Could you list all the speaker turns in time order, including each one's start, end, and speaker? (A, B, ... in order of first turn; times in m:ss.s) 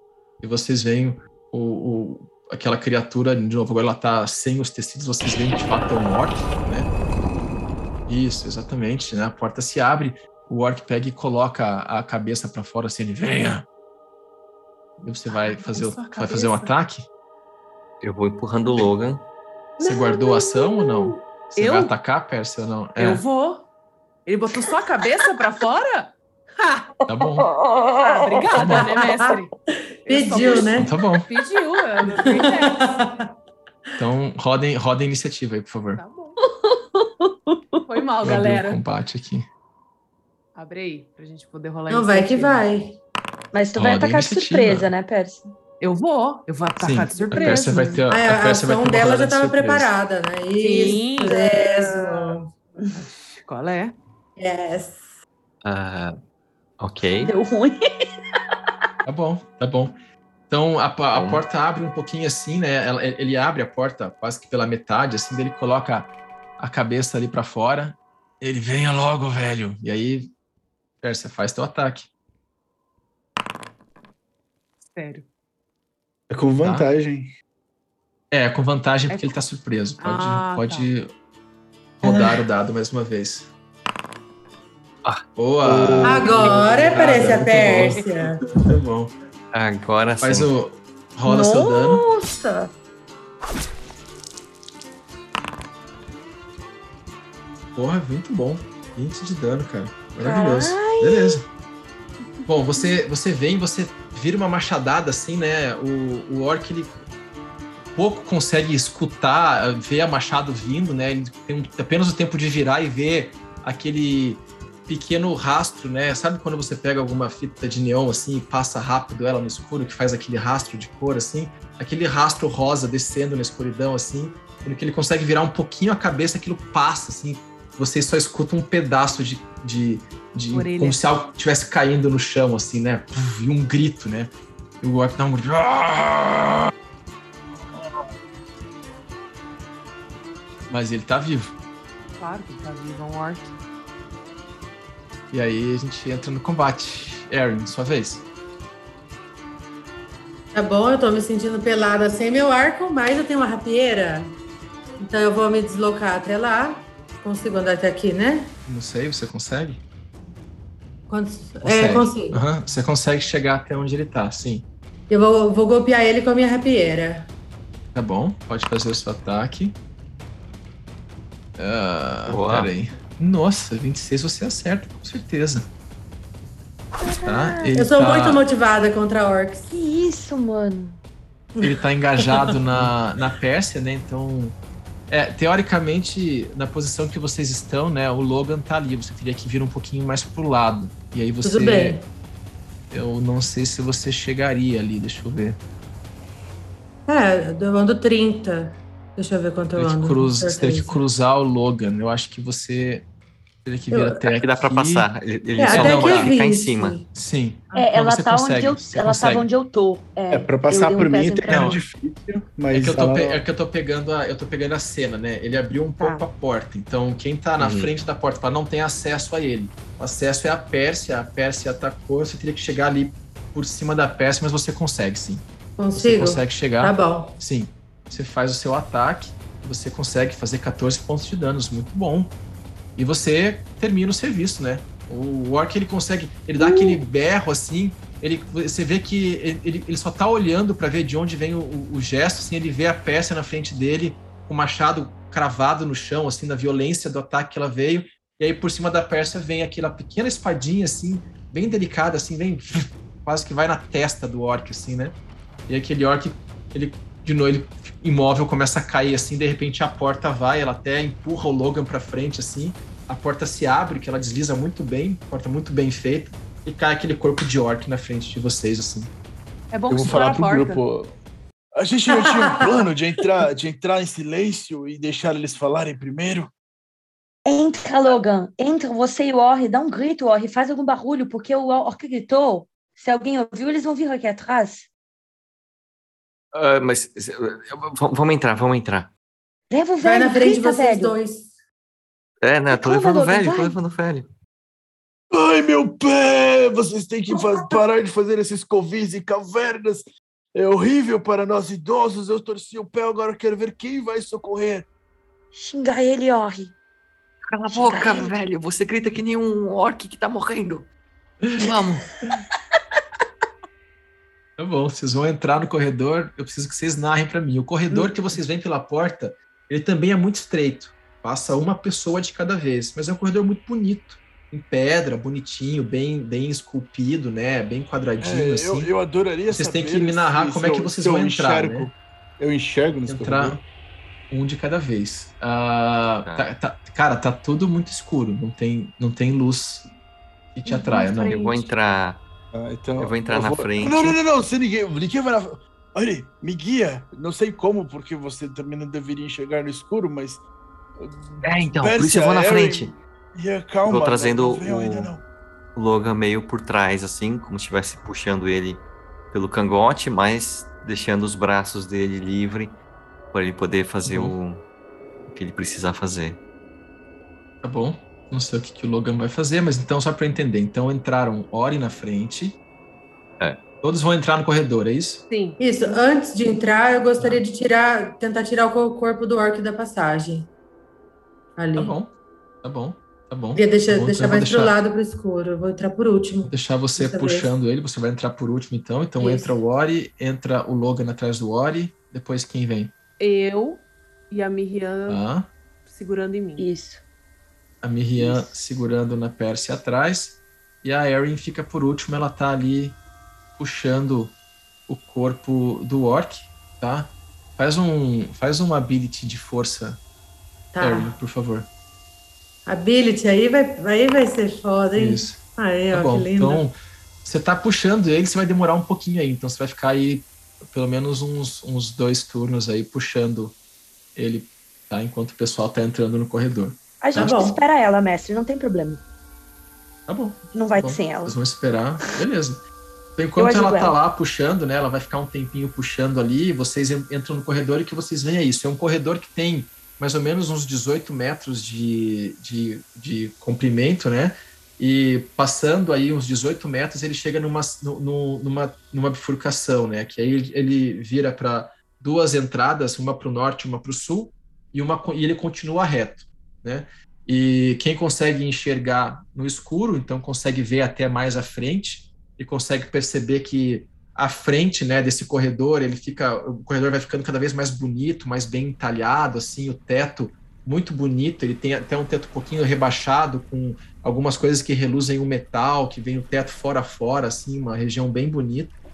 0:00.4-0:06.9 A
0:08.1-0:13.7 A
0:15.0-0:17.1 A
0:15.3-0:16.7 B
0:18.0-0:19.2 C
0:19.8-0:20.2 B
0:19.8-0:23.2 A
0:20.2-0:20.8 D
0:21.1-0:21.9 B
0:23.0-0:23.7 B
0:24.3-0:26.2 B
0:27.1-0:27.5 A
0:27.2-0:28.6 D
0:28.1-0:29.5 B
0:28.6-0:28.9 A
0:28.7-0:29.2 E
0:30.1-0:30.9 E
0:30.1-0:33.0 B
0:30.8-0:31.3 A
0:32.2-0:33.3 E
0:34.0-0:36.0 A
0:36.0-0:36.4 B
0:36.4-0:38.0 D
0:37.9-0:38.8 B
0:38.2-0:39.5 A
0:40.6-0:42.7 B
0:41.9-0:43.0 E
0:43.5-0:45.5 D
0:43.8-0:44.9 A
0:45.8-0:48.0 B
0:46.8-0:49.9 A
0:47.2-0:48.0 D
0:48.1-0:52.5 E
0:50.6-0:54.0 B
0:54.4-0:55.2 E
0:55.6-0:56.2 C
0:56.8-0:57.3 C
0:57.2-0:57.8 D
0:59.1-1:00.0 A
1:00.5-1:10.3 A
1:01.1-1:01.4 C
1:11.0-1:12.1 A
1:14.8-1:15.3 B
1:16.3-1:17.3 F
1:16.6-1:16.9 A
1:18.3-1:21.1 A
1:19.1-1:19.4 B
1:20.0-1:20.9 B
1:22.0-1:23.5 A
1:22.0-1:22.4 E
1:25.4-1:29.1 A
1:25.6-1:27.7 F
1:26.0-1:28.4 E
1:27.9-1:28.4 B
1:29.5-1:30.5 C
1:30.2-1:32.0 A
1:31.2-1:32.7 D
1:37.7-1:41.5 A
1:40.2-1:41.4 D
1:42.5-1:46.9 A
1:47.9-2:16.7 A
2:10.5-2:11.0 B
2:20.7-2:21.6 A
2:22.2-2:23.6 B
2:25.3-2:28.2 A
2:30.5-2:34.3 E
2:35.0-2:38.5 E
2:38.7-2:39.8 A
2:41.1-2:42.4 E
2:41.6-2:44.7 A
2:45.1-2:47.3 E
2:47.9-2:49.8 A
2:51.6-2:55.7 A
2:52.3-2:52.7 C
2:57.0-2:57.7 D
2:57.2-2:58.4 A
2:57.8-2:59.7 E
2:59.7-3:01.0 D
3:01.6-3:02.4 E
3:01.6-3:04.6 A
3:05.1-3:12.0 A
3:11.4-3:12.1 E
3:12.9-3:15.6 A
3:17.1-3:21.0 E
3:19.8-3:23.1 A
3:23.6-3:25.1 A
3:24.3-3:27.0 C
3:25.6-3:27.1 E
3:25.7-3:26.3 A
3:27.1-3:29.5 A
3:27.7-3:31.8 D
3:30.3-3:33.4 F
3:31.5-3:31.8 A
3:32.7-3:52.3 A
3:36.0-3:36.3 D
3:37.6-3:37.9 C
3:45.8-3:47.4 E
3:53.0-4:29.1 A
4:29.7-4:30.8 B
4:29.9-4:31.2 F
4:31.8-4:36.5 F
4:32.2-4:32.7 E
4:37.5-4:44.9 D
4:46.5-4:49.1 C
4:49.7-4:51.2 D
4:50.0-4:51.6 E
4:52.4-4:54.3 C
4:52.7-4:53.8 D
4:55.3-5:04.9 F
5:05.5-5:06.7 D
5:07.5-5:10.9 C
5:07.7-5:08.3 D
5:11.4-5:11.7 A
5:11.6-5:12.0 C
5:14.6-5:28.9 A
5:28.2-5:33.6 F
5:29.5-5:31.9 A
5:33.1-5:33.6 A
5:34.3-5:39.9 A
5:36.2-5:36.5 C
5:40.5-5:41.4 A
5:41.0-5:41.7 B
5:41.4-5:42.2 C
5:42.5-5:50.4 F
5:43.0-5:44.2 C
5:51.0-5:55.2 F
5:51.4-5:53.0 C
5:53.9-5:55.1 C
5:55.8-6:02.8 C
6:03.3-6:04.6 C
6:04.0-6:04.4 A
6:05.3-6:06.4 C
6:07.6-6:12.6 A
6:13.8-6:15.2 A
6:15.3-6:16.0 B
6:15.6-6:20.5 E
6:21.6-6:21.9 E
6:21.8-6:22.1 A
6:22.6-6:24.8 A
6:23.6-6:27.5 E
6:26.4-6:32.9 A
6:29.2-6:29.6 E
6:33.2-6:35.2 B
6:35.1-6:35.5 A
6:35.8-6:36.7 B
6:36.6-6:37.0 D
6:37.8-6:43.0 A
6:43.6-6:44.4 A
6:44.9-6:50.0 A
6:50.7-6:51.2 E
6:50.8-6:51.7 A
6:52.7-6:56.6 E
6:55.0-6:55.4 A
6:55.9-7:03.6 A
7:04.2-7:07.6 A
7:07.0-7:09.0 D
7:07.2-7:07.6 E
7:10.1-7:12.6 A
7:10.5-7:11.4 D
7:13.2-7:58.7 A
7:13.4-7:14.0 D